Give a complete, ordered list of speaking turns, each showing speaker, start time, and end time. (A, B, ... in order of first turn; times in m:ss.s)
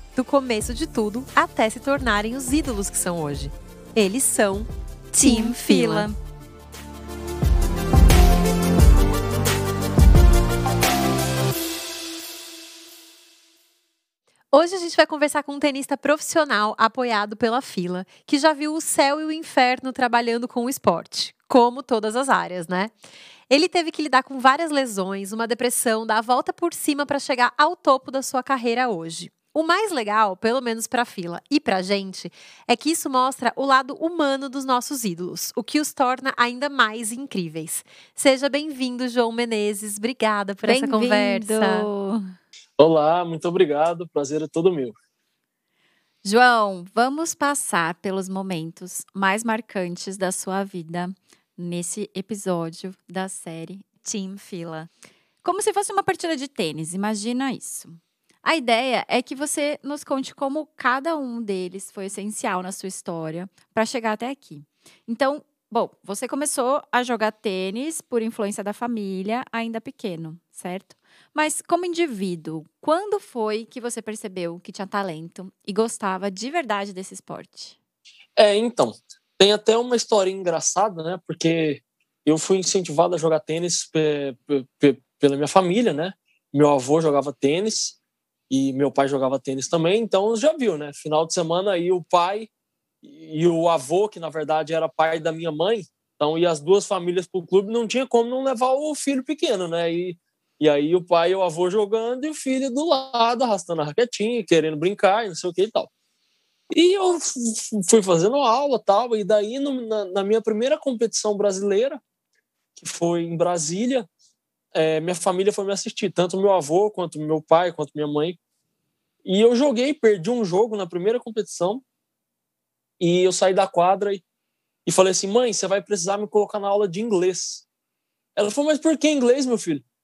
0:00.2-0:06.1 A
0:05.1-0:06.2 B
0:14.5-0:22.9 A
0:23.5-0:41.9 A
0:40.6-0:42.3 B
0:42.8-0:44.9 C
0:46.2-0:54.9 B
0:55.4-1:17.8 B
1:18.4-1:28.0 C
1:28.5-1:32.5 C
1:33.0-1:45.9 C
1:46.7-1:52.0 C
1:52.8-1:54.0 C
1:54.7-1:58.4 C
1:59.2-2:01.8 C
2:03.0-2:04.2 C
2:04.8-2:07.6 C
2:08.4-2:09.8 C